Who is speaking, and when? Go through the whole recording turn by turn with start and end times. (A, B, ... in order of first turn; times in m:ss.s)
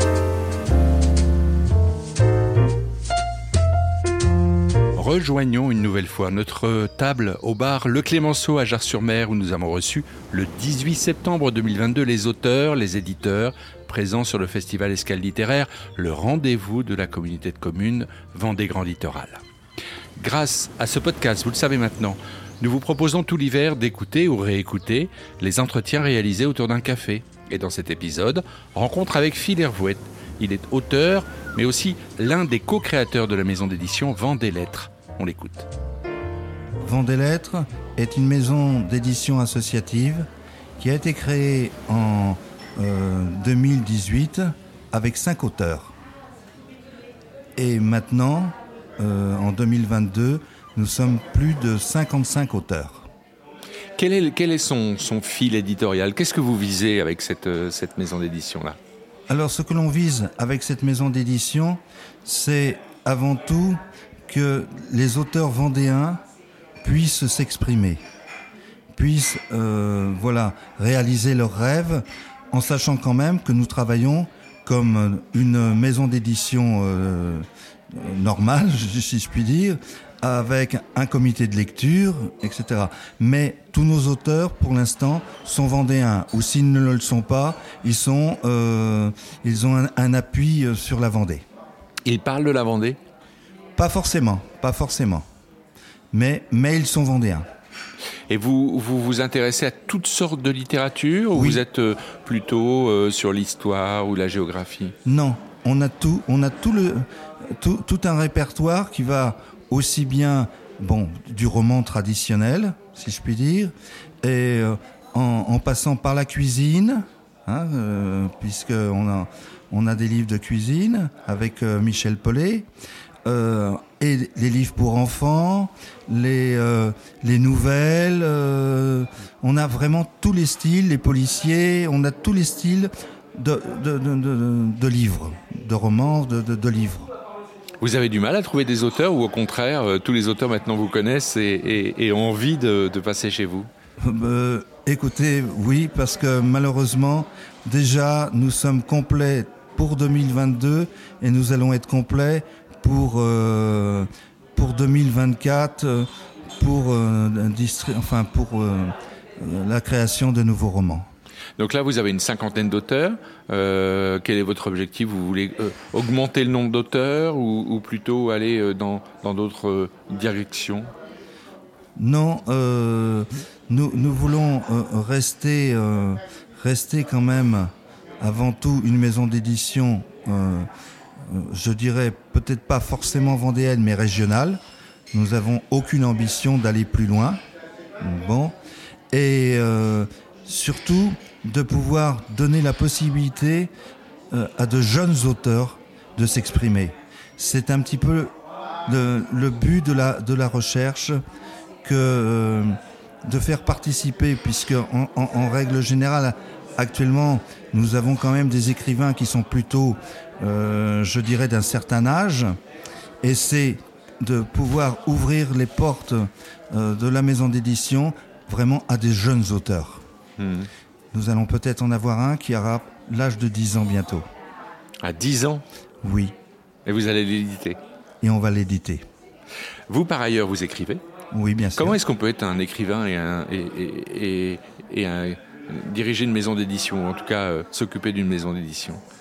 0:05.0-0:19.4 A
0:20.2-0:35.7 A
0:36.8-0:40.3 B
0:40.8-0:45.9 B
0:47.6-0:53.1 B
0:54.0-0:58.8 A
0:59.3-1:06.2 B
1:06.8-1:08.0 B
1:08.9-1:31.4 B
1:32.1-1:33.0 A
1:33.8-1:35.2 B
1:36.1-1:37.5 B
1:38.3-1:44.9 A
1:41.3-1:41.6 B
1:45.0-1:47.0 B
1:47.6-2:02.7 B
2:03.3-2:17.1 B
2:17.8-2:23.7 A
2:24.0-2:41.1 B
2:41.6-2:50.9 A
2:52.0-3:00.7 B
3:01.2-3:04.6 B
3:05.1-3:07.4 B
3:08.0-3:08.6 B
3:09.1-3:13.7 B
3:14.3-3:18.3 B
3:18.9-3:21.2 B
3:21.8-3:32.6 B
3:33.2-3:40.0 B
3:40.4-3:40.7 A
3:41.1-3:44.3 B
3:45.0-3:45.6 A
3:46.0-3:46.3 B
3:46.9-3:47.8 A
3:48.2-3:49.0 B
3:49.9-3:51.0 A
3:51.3-3:52.0 B
3:51.8-3:59.0 A